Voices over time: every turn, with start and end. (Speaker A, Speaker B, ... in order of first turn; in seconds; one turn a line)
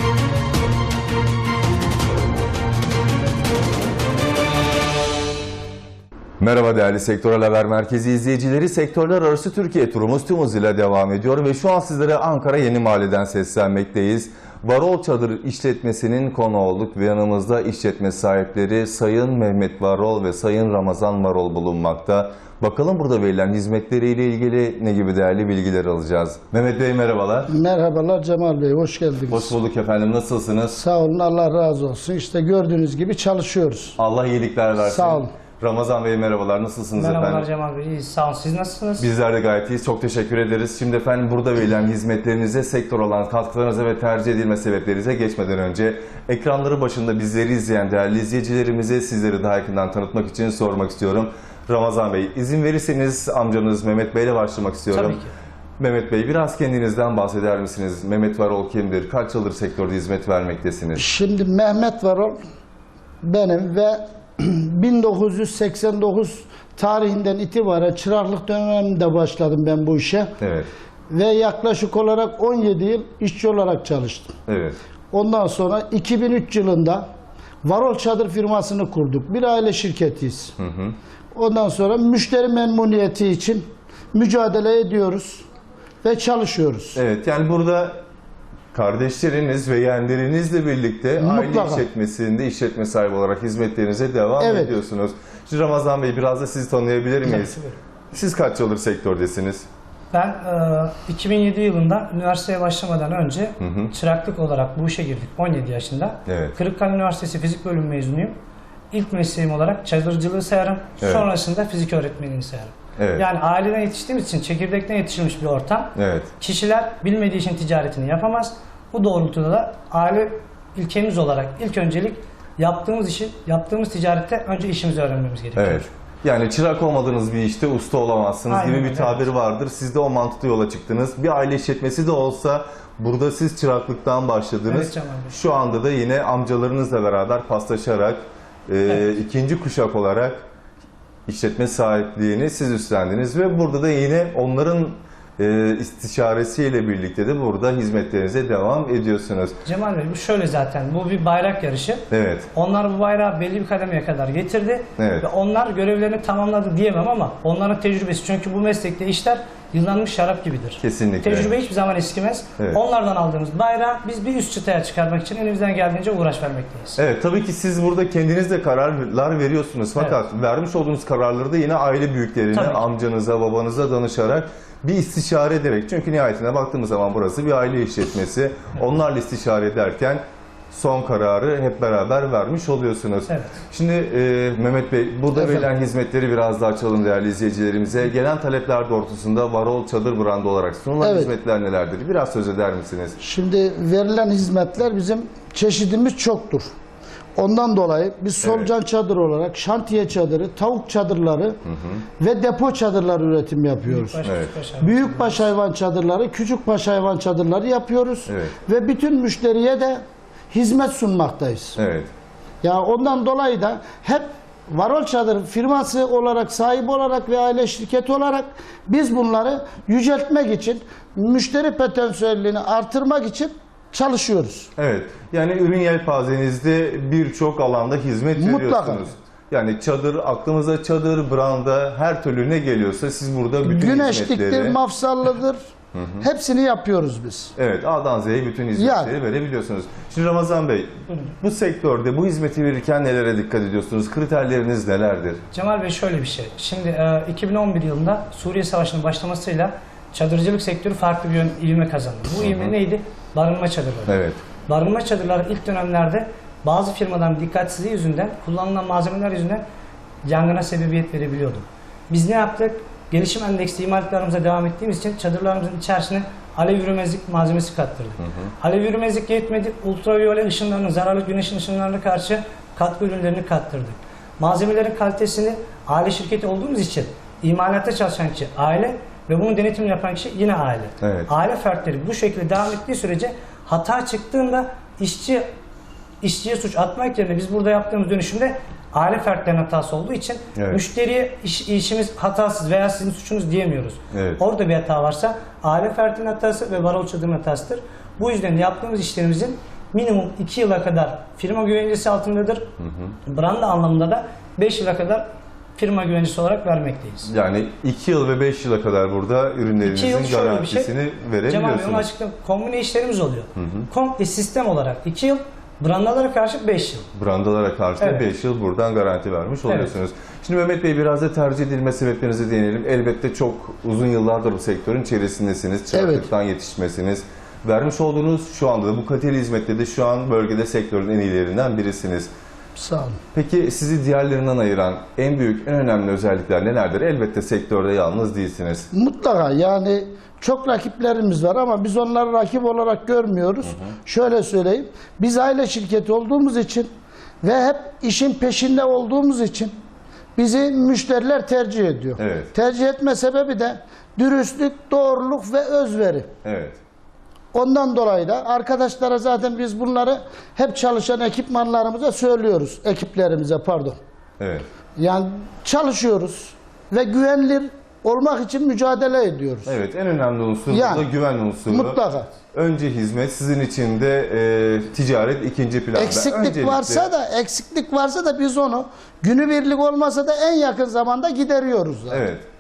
Speaker A: 6.4-27.5
Speaker B: 27.5-29.6
Speaker A: 29.3-30.8
Speaker B: 30.7-34.0
Speaker A: 34.0-37.5
Speaker B: 34.8-35.3
Speaker C: 36.9-39.1
Speaker A: 39.0-55.2
Speaker C: 54.9-55.3
Speaker A: 55.8-61.0
Speaker B: 61.0-62.4
Speaker B: 63.2-70.3
Speaker A: 70.4-70.7
Speaker B: 71.1-74.4
Speaker A: 74.5-74.8
Speaker B: 75.1-77.0
Speaker B: 77.6-80.5
Speaker A: 80.6-81.0
Speaker B: 81.3-85.5
Speaker B: 86.0-87.0
Speaker A: 87.0-88.0
Speaker A: 88.7-97.5
Speaker B: 91.2-91.8
Speaker B: 94.4-94.7
Speaker C: 97.2-97.8
Speaker A: 98.1-99.7
Speaker C: 100.1-108.4
Speaker A: 103.6-103.9
Speaker A: 106.3-106.5
Speaker C: 108.9-125.9
Speaker A: 113.0-113.2
Speaker A: 116.0-116.3
Speaker A: 125.6-140.4
Speaker C: 128.5-129.3
Speaker C: 134.7-135.4
Speaker A: 141.3-149.6
Speaker C: 149.6-167.0
Speaker A: 152.1-152.5
Speaker A: 155.0-155.2
Speaker A: 160.8-161.5
Speaker A: 167.0-193.2
Speaker C: 172.5-172.8
Speaker C: 183.3-183.5
Speaker B: 185.3-185.7
Speaker B: 191.0-191.3
Speaker B: 193.2-196.7
Speaker B: 197.4-201.6
Speaker A: 198.4-198.7
Speaker A: 201.7-202.0
Speaker B: 202.2-204.2
Speaker C: 203.9-205.5
Speaker A: 204.2-204.5
Speaker B: 204.8-211.8
Speaker A: 208.3-208.6
Speaker A: 211.8-212.1
Speaker B: 212.6-224.7
Speaker A: 224.8-234.8
Speaker B: 228.4-229.1
Speaker B: 233.6-235.6
Speaker A: 235.9-236.2
Speaker B: 236.2-237.5
Speaker A: 237.6-245.4
Speaker B: 238.8-239.1
Speaker C: 245.5-259.6
Speaker A: 252.4-252.7
Speaker A: 254.1-254.4
Speaker C: 260.2-285.5
Speaker A: 268.2-268.5
Speaker A: 281.0-281.3
Speaker C: 286.2-302.7
Speaker A: 290.6-290.8
Speaker A: 294.1-294.4
Speaker A: 302.8-303.1
Speaker C: 303.3-307.3
Speaker A: 307.3-312.1
Speaker C: 309.8-310.9
Speaker C: 311.4-317.1
Speaker A: 313.6-313.9
Speaker A: 317.1-332.3
Speaker C: 319.7-320.0
Speaker B: 325.9-326.3
Speaker B: 332.8-333.2
Speaker A: 333.3-338.9
Speaker B: 338.9-346.9
Speaker B: 347.4-349.7
Speaker B: 350.4-356.3
Speaker A: 352.2-352.5
Speaker A: 356.4-356.8
Speaker B: 357.5-364.0
Speaker A: 364.4-364.7
Speaker B: 365.0-369.8
Speaker A: 369.7-372.0
Speaker B: 370.7-371.1
Speaker B: 371.7-372.3
Speaker A: 372.5-377.1
Speaker B: 375.9-382.3
Speaker A: 382.1-382.4